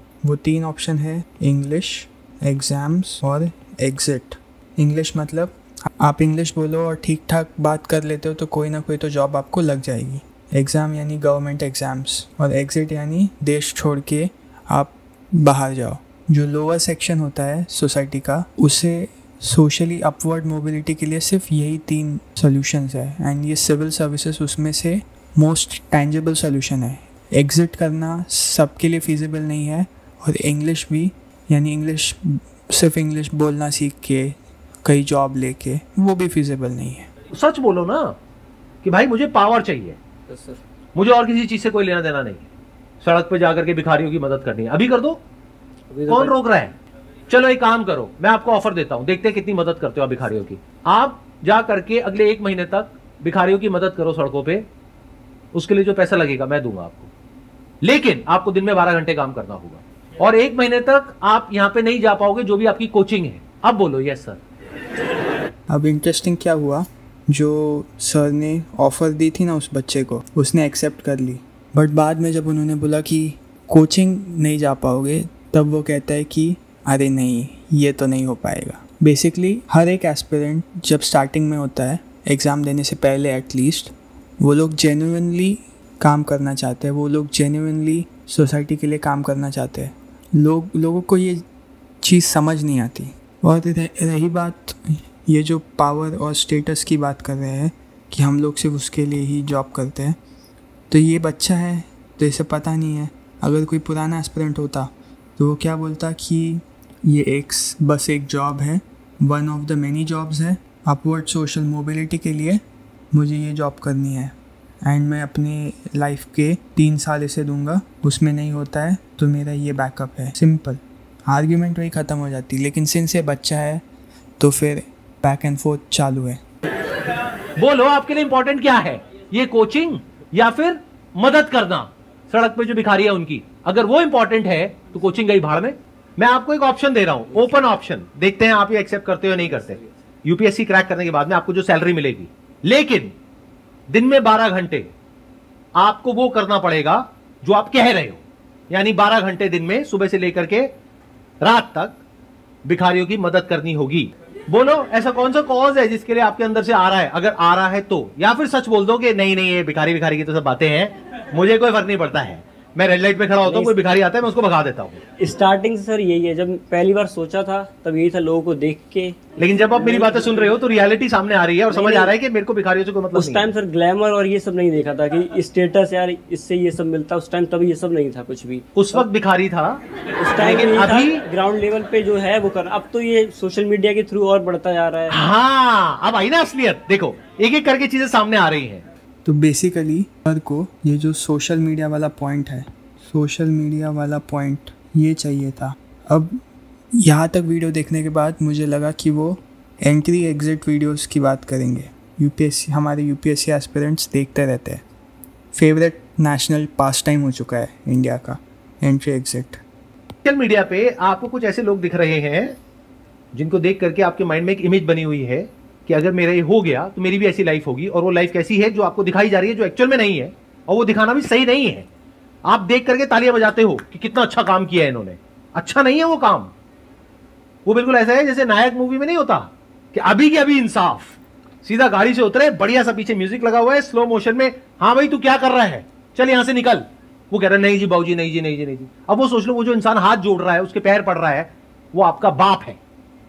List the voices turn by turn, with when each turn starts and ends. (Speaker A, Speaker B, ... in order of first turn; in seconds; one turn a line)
Speaker A: 0.2-37.1
Speaker B: 37.3-38.2
Speaker B: 38.8-40.0
Speaker C: 40.3-40.6
Speaker B: 41.0-42.5
Speaker B: 43.0-45.2
Speaker C: 45.9-46.4
Speaker B: 46.1-46.7
Speaker B: 47.3-54.7
Speaker B: 55.5-57.1
Speaker B: 57.8-64.4
Speaker A: 65.7-91.5
Speaker A: 92.0-100.2
Speaker A: 100.9-114.3
Speaker A: 114.8-123.8
Speaker A: 124.4-126.4
Speaker B: 127.6-143.1
Speaker B: 143.9-144.9
Speaker B: 145.8-150.7
Speaker B: 151.4-152.0
Speaker B: 152.7-165.0
Speaker C: 163.4-163.8
Speaker C: 165.2-170.6
Speaker B: 169.4-173.5
Speaker C: 171.7-172.1
Speaker C: 173.1-179.1
Speaker B: 178.8-179.8
Speaker C: 180.2-185.2
Speaker B: 180.4-181.2
Speaker B: 185.1-188.8
Speaker A: 189.2-196.4
Speaker A: 197.0-204.8
Speaker A: 205.5-209.6
Speaker B: 210.2-212.6
Speaker B: 213.3-221.9
Speaker B: 222.5-226.5
Speaker B: 227.7-242.8